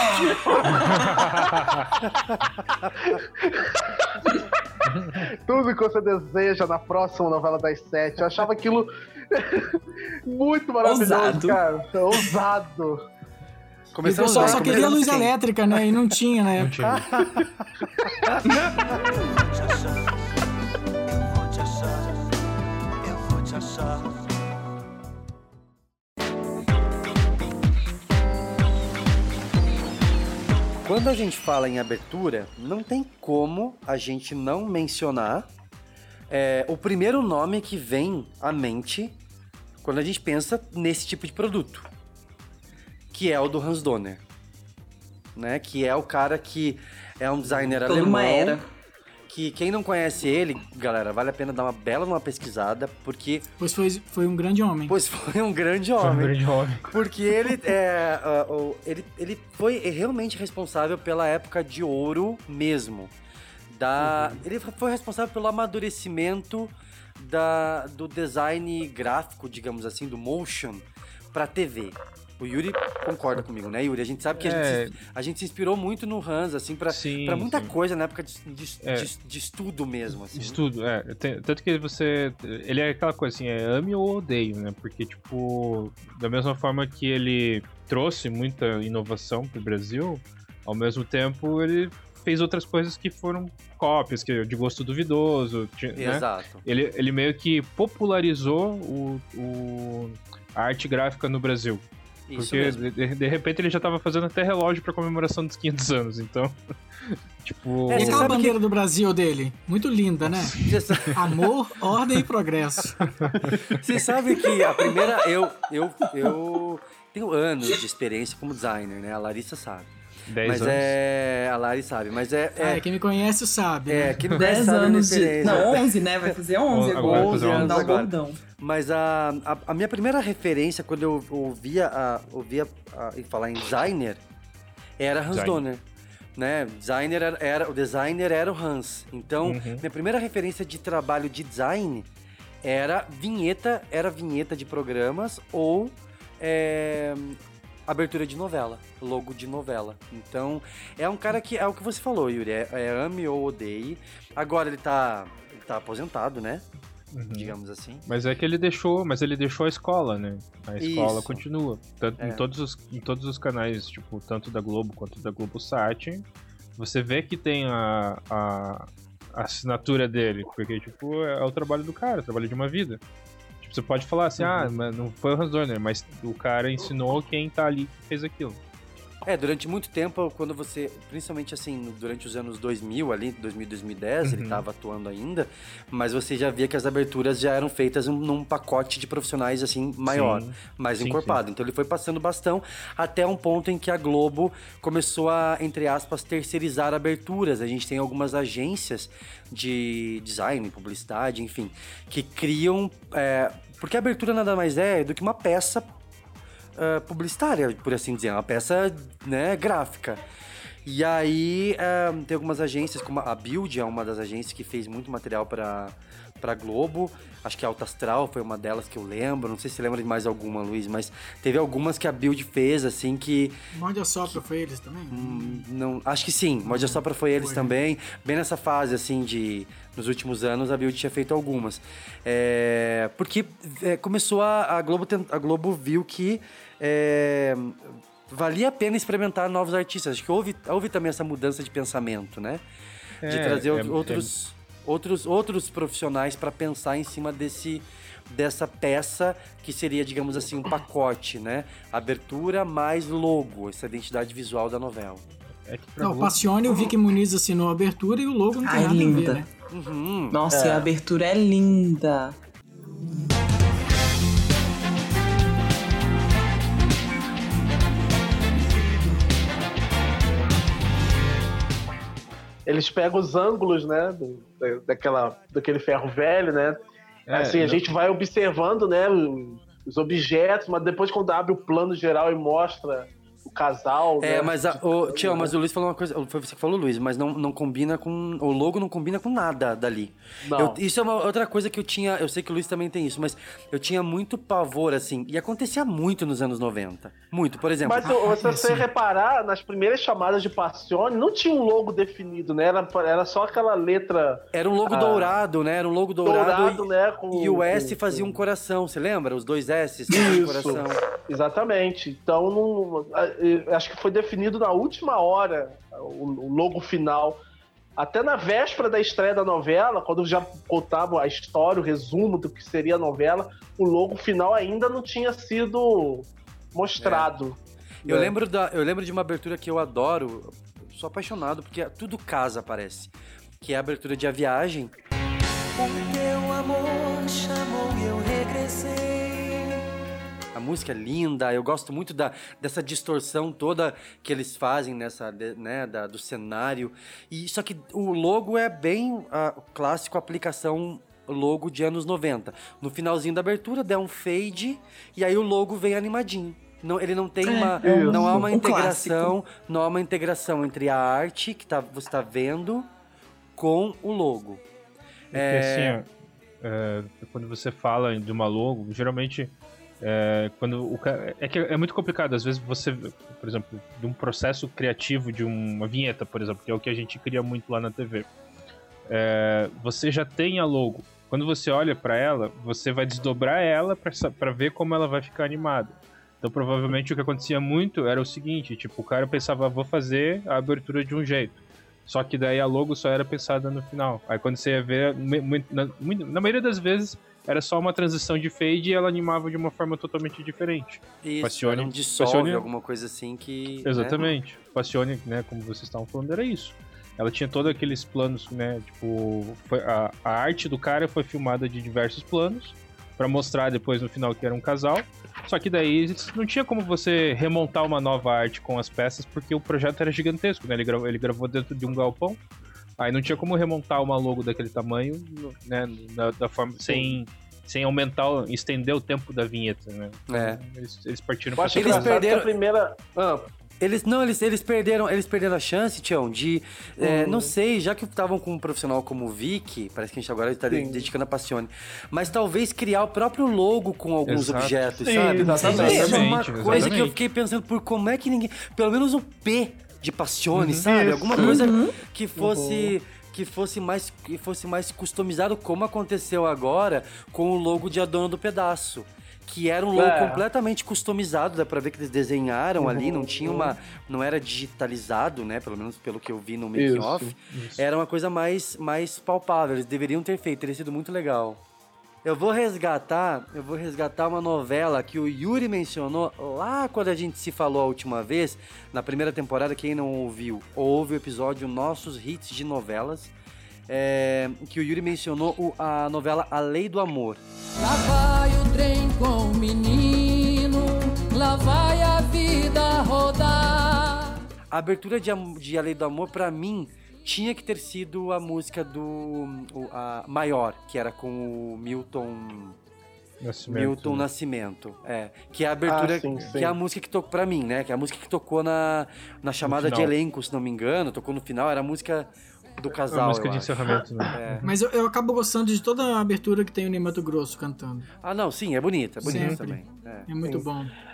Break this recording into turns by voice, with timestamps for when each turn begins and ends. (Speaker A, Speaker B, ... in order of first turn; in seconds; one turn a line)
Speaker A: 0.3-0.8
Speaker B: 0.7-1.9
Speaker C: 2.2-3.1
Speaker A: 3.1-4.2
Speaker B: 4.8-5.2
Speaker A: 5.4-13.0
Speaker D: 10.8-11.6
Speaker C: 13.9-15.3
Speaker E: 14.0-16.7
Speaker B: 16.6-17.1
Speaker C: 16.9-17.4
Speaker F: 21.1-22.0
Speaker F: 23.0-24.0
Speaker C: 30.8-35.5
Speaker C: 36.3-39.1
Speaker C: 39.8-41.9
Speaker C: 43.1-44.2
Speaker C: 45.4-48.6
Speaker D: 47.8-48.6
Speaker C: 49.3-53.5
Speaker E: 53.6-54.9
Speaker C: 54.9-63.1
Speaker B: 56.0-56.9
Speaker C: 63.7-80.6
Speaker B: 74.4-75.0
Speaker B: 76.9-77.7
Speaker B: 78.8-79.1
Speaker B: 80.3-101.8
Speaker C: 96.0-96.6
Speaker C: 102.3-102.8
Speaker B: 102.3-108.3
Speaker C: 107.9-108.5
Speaker E: 107.9-110.5
Speaker C: 110.6-111.2
Speaker E: 111.1-113.1
Speaker B: 113.2-113.8
Speaker C: 113.5-119.9
Speaker B: 120.3-120.9
Speaker C: 120.4-122.9
Speaker E: 122.6-124.2
Speaker C: 123.9-126.3
Speaker D: 124.3-128.4
Speaker B: 126.7-128.0
Speaker C: 126.9-134.2
Speaker C: 135.0-135.8
Speaker B: 135.3-135.6
Speaker C: 136.4-142.1
Speaker B: 139.4-139.8
Speaker C: 142.6-156.7
Speaker B: 157.1-157.5
Speaker C: 157.3-158.1
Speaker B: 158.1-166.2
Speaker C: 160.8-161.4
Speaker C: 162.2-162.4
Speaker B: 166.8-173.0
Speaker B: 173.6-178.6
Speaker C: 174.4-174.7
Speaker C: 179.2-205.9
Speaker B: 184.2-184.6
Speaker B: 190.1-191.4
Speaker C: 206.8-210.2
Speaker C: 210.8-223.6
Speaker E: 223.7-225.6
Speaker C: 225.1-242.6
Speaker E: 226.6-227.7
Speaker B: 243.2-244.3
Speaker C: 243.2-255.2
Speaker B: 255.7-256.4
Speaker E: 256.0-259.4
Speaker D: 258.6-259.4
Speaker C: 259.7-260.4
Speaker D: 260.3-262.3
Speaker A: 260.5-260.9
Speaker A: 272.7-276.8
Speaker B: 277.3-277.8
Speaker A: 277.3-285.5
Speaker C: 284.2-298.1
Speaker A: 290.4-290.8
Speaker A: 297.8-305.4
Speaker B: 298.4-298.8
Speaker C: 304.5-311.0
Speaker A: 306.2-308.4
Speaker A: 310.1-317.4
Speaker A: 318.0-328.3
Speaker C: 327.0-327.3
Speaker C: 328.0-334.9
Speaker F: 335.8-339.8
Speaker C: 340.5-362.9
Speaker D: 357.4-359.3
Speaker A: 357.8-358.4
Speaker C: 363.6-364.6
Speaker C: 365.3-366.0
Speaker B: 365.3-366.1
Speaker B: 366.6-378.3
Speaker B: 379.1-402.6
Speaker C: 401.2-404.3
Speaker B: 403.8-422.4
Speaker B: 423.0-432.2
Speaker A: 426.8-427.2
Speaker C: 430.3-430.6
Speaker A: 431.6-433.4
Speaker C: 431.7-432.5
Speaker C: 433.8-471.6
Speaker A: 437.0-437.5
Speaker A: 440.7-441.1
Speaker B: 444.3-447.1
Speaker A: 445.0-446.3
Speaker D: 445.6-446.8
Speaker B: 450.6-450.8
Speaker A: 450.8-451.7
Speaker D: 451.4-452.0
Speaker A: 452.4-452.9
Speaker A: 459.9-460.4
Speaker A: 462.8-463.7
Speaker A: 466.8-467.3
Speaker B: 467.5-467.8
Speaker C: 472.2-483.3
Speaker C: 483.9-487.4
Speaker F: 487.8-494.3
Speaker C: 494.7-502.8
Speaker B: 503.4-504.2
Speaker C: 503.7-514.6
Speaker A: 505.9-506.7
Speaker B: 509.6-510.1
Speaker B: 513.1-514.7
Speaker E: 514.6-518.1
Speaker C: 518.2-520.3
Speaker E: 519.2-520.9
Speaker B: 519.2-519.6